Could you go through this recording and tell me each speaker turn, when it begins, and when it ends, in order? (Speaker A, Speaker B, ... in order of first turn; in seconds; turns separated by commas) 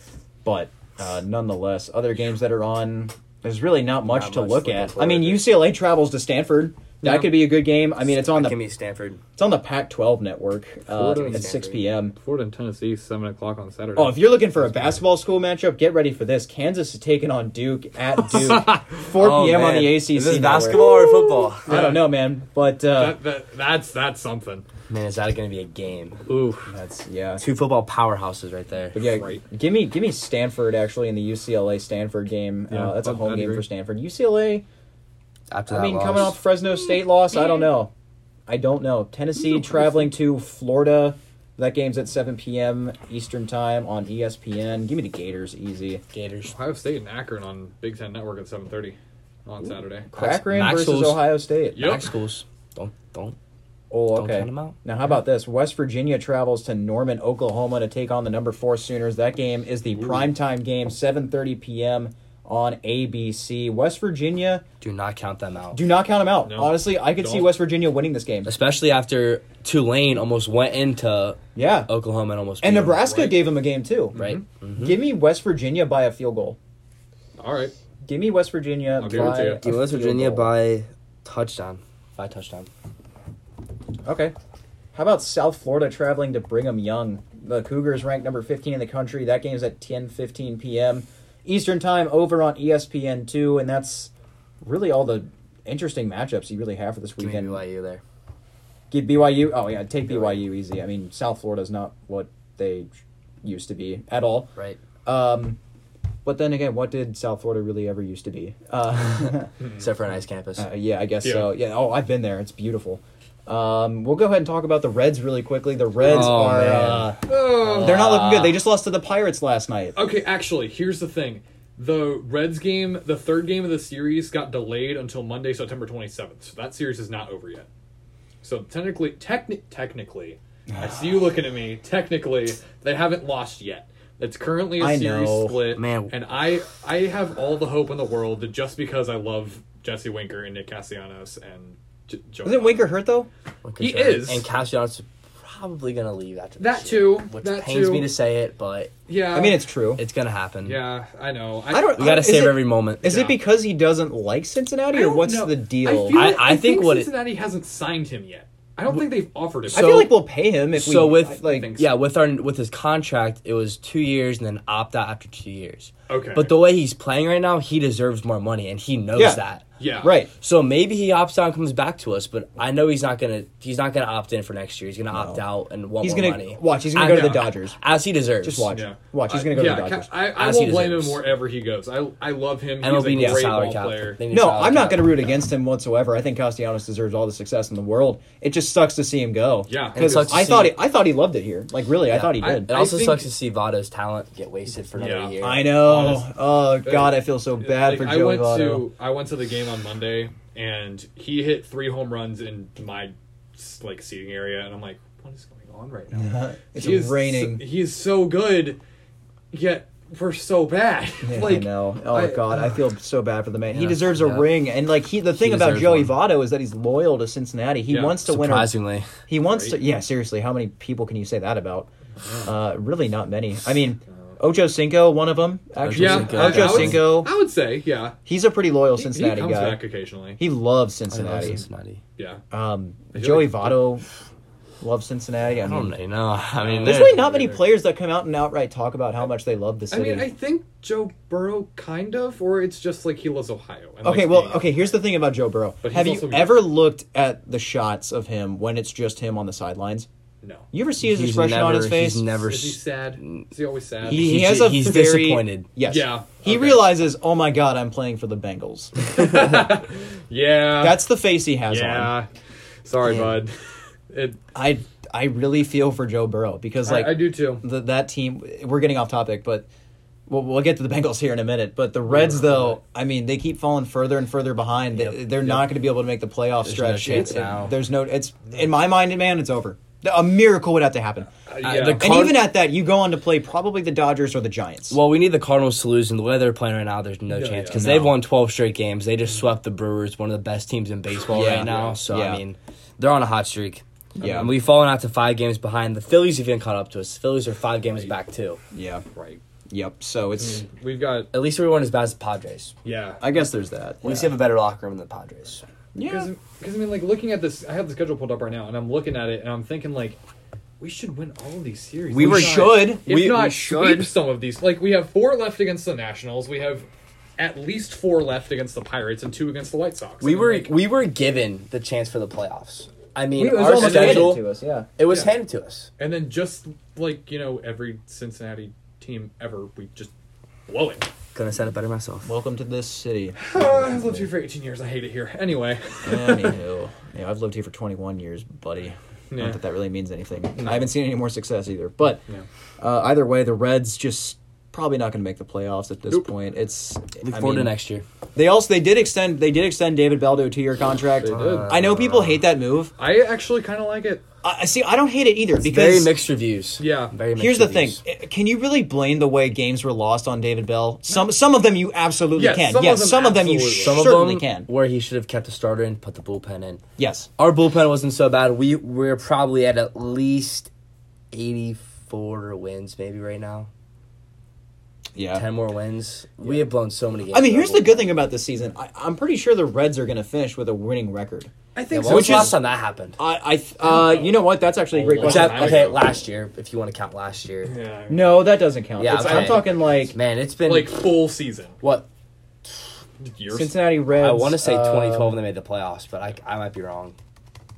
Speaker A: 0.5-8.6, Speaker B: 4.0-5.5, Speaker C: 7.0-7.5, Speaker B: 8.1-9.2, Speaker A: 9.4-12.2, Speaker C: 10.9-11.5, Speaker B: 11.1-11.8, Speaker C: 12.2-15.0, Speaker A: 14.0-23.2, Speaker C: 18.2-19.0, Speaker B: 19.2-21.7, Speaker C: 21.6-22.1, Speaker C: 22.9-24.6, Speaker B: 24.9-26.3, Speaker C: 26.3-26.7, Speaker A: 26.7-27.4, Speaker B: 27.4-29.0, Speaker A: 28.9-34.6, Speaker C: 29.0-29.4, Speaker C: 32.7-33.6, Speaker B: 35.5-36.4, Speaker A: 35.7-37.9, Speaker A: 38.5-46.0, Speaker B: 46.1-46.5, Speaker C: 46.5-50.1, Speaker A: 50.1-51.8, Speaker B: 50.1-53.4, Speaker C: 51.8-52.1, Speaker A: 53.9-64.6, Speaker B: 54.1-54.8, Speaker B: 64.8-65.8, Speaker A: 65.7-68.5, Speaker C: 66.5-67.5, Speaker B: 68.5-73.1, Speaker A: 71.5-71.9, Speaker A: 72.6-74.2, Speaker C: 73.1-73.4, Speaker C: 74.2-74.4, Speaker B: 74.2-75.0, Speaker A: 74.8-76.6, Speaker C: 77.4-77.7, Speaker A: 78.0-80.5, Speaker C: 79.0-79.6, Speaker B: 79.1-82.7, Speaker A: 84.0-84.3, Speaker A: 84.9-94.1, Speaker A: 94.6-97.6, Speaker B: 97.2-98.0, Speaker A: 98.9-102.9, Speaker B: 100.1-100.4, Speaker A: 103.4-104.5, Speaker A: 105.0-105.6, Speaker A: 106.2-109.5, Speaker B: 109.8-110.7, Speaker A: 110.6-120.0, Speaker C: 111.2-111.5, Speaker B: 116.0-118.5, Speaker C: 117.3-118.6, Speaker C: 120.0-127.7, Speaker C: 128.4-142.9, Speaker A: 130.7-131.0, Speaker A: 134.8-135.6, Speaker B: 135.7-136.2, Speaker A: 142.4-143.3, Speaker B: 143.6-148.9, Speaker C: 143.8-144.5, Speaker C: 146.6-148.1, Speaker C: 149.1-149.7, Speaker A: 149.3-150.0, Speaker B: 150.0-150.8, Speaker C: 150.6-152.1, Speaker A: 151.7-156.3, Speaker B: 152.0-153.2, Speaker C: 153.0-153.4, Speaker C: 154.9-160.1, Speaker B: 156.1-157.1, Speaker A: 159.7-161.7, Speaker B: 160.7-169.7, Speaker C: 161.4-161.9, Speaker C: 166.1-166.6, Speaker A: 169.2-169.4, Speaker C: 169.8-170.2, Speaker A: 170.0-170.3, Speaker B: 170.4-178.7, Speaker A: 175.1-175.4, Speaker A: 176.0-177.8, Speaker C: 177.1-177.4, Speaker A: 178.4-180.1, Speaker C: 178.7-184.2, Speaker B: 180.3-181.2, Speaker B: 182.8-185.4, Speaker A: 184.3-192.7, Speaker C: 189.7-190.5, Speaker B: 189.9-190.8, Speaker B: 192.1-195.8, Speaker C: 192.4-193.3, Speaker C: 195.0-196.3, Speaker A: 195.4-198.9, Speaker C: 196.8-208.8, Speaker A: 206.1-207.6, Speaker C: 209.5-212.8, Speaker A: 211.2-221.9, Speaker B: 213.7-214.6, Speaker B: 215.3-216.2, Speaker C: 217.9-218.2, Speaker B: 218.2-219.1, Speaker C: 219.4-219.8, Speaker C: 222.2-222.5, Speaker A: 222.4-227.3, Speaker B: 225.8-227.1, Speaker C: 226.0-228.2, Speaker A: 228.3-229.8, Speaker C: 229.0-230.4, Speaker A: 230.4-231.6, Speaker B: 231.1-232.0, Speaker C: 232.2-232.4, Speaker A: 232.5-234.1, Speaker C: 233.1-233.8, Speaker A: 234.8-235.9, Speaker B: 235.6-237.3, Speaker C: 236.6-237.7, Speaker A: 236.8-240.3, Speaker C: 239.9-244.9, Speaker A: 244.0-250.1, Speaker C: 245.8-246.7, Speaker C: 250.4-250.7, Speaker A: 250.7-252.3, Speaker B: 251.0-253.5, Speaker C: 252.5-254.4, Speaker B: 254.1-255.7, Speaker A: 254.1-259.8, Speaker C: 255.8-256.9, Speaker C: 259.0-261.0, Speaker A: 260.8-262.1, Speaker C: 261.7-262.3, Speaker C: 262.9-263.6, Speaker A: 263.1-263.4, Speaker C: 264.1-264.4, Speaker A: 264.5-269.7, Speaker C: 266.9-267.6, Speaker A: 270.3-281.3, Speaker C: 272.1-272.8, Speaker B: 274.9-275.7, Speaker B: 276.6-277.7, Speaker C: 281.5-282.1, Speaker B: 281.6-282.5, Speaker A: 281.9-285.0, Speaker B: 284.9-298.6, Speaker C: 287.3-287.9, Speaker A: 287.7-288.2, Speaker A: 291.3-292.4, Speaker C: 291.4-292.0, Speaker A: 294.2-294.5, Speaker A: 298.7-299.1, Speaker C: 299.1-299.4, Speaker A: 299.7-300.6, Speaker C: 300.4-301.3, Speaker B: 301.3-302.8, Speaker C: 302.8-303.2, Speaker A: 303.2-304.3, Speaker B: 304.0-305.6, Speaker A: 305.9-306.3, Speaker C: 306.0-310.2, Speaker C: 310.8-320.7, Speaker B: 312.1-313.5, Speaker A: 312.1-314.1, Speaker B: 320.2-324.5, Speaker A: 323.4-324.9, Speaker C: 323.7-324.4, Speaker B: 325.0-325.9, Speaker C: 326.0-330.1, Speaker C: 330.7-331.1, Speaker B: 331.4-332.3, Speaker A: 332.2-334.3, Speaker C: 333.4-336.6, Speaker A: 336.1-342.2, Speaker C: 339.3-339.6, Speaker C: 340.6-340.9, Speaker A: 342.8-347.7, Speaker B: 347.2-348.0, Speaker A: 348.4-352.9, Speaker B: 351.2-352.4, Speaker C: 351.2-351.8, Speaker C: 353.0-354.2, Speaker A: 354.4-356.1, Speaker B: 355.6-358.0, Speaker C: 356.8-357.1, Speaker A: 357.4-364.7, Speaker C: 362.4-364.0, Speaker B: 363.8-366.8, Speaker A: 367.0-367.3, Speaker B: 367.4-370.7, Speaker B: 371.3-373.7, Speaker A: 375.1-375.4, Speaker B: 375.3-378.2, Speaker A: 377.3-381.5, Speaker C: 381.8-382.6, Speaker B: 381.9-383.2, Speaker A: 382.0-382.6, Speaker A: 383.2-386.1, Speaker C: 383.8-386.1, Speaker B: 385.2-387.8, Speaker C: 387.6-389.8, Speaker A: 388.1-390.2, Speaker B: 389.0-391.1, Speaker C: 390.6-391.8, Speaker B: 391.8-392.1, Speaker C: 393.2-393.8, Speaker A: 393.5-395.4, Speaker B: 394.1-397.2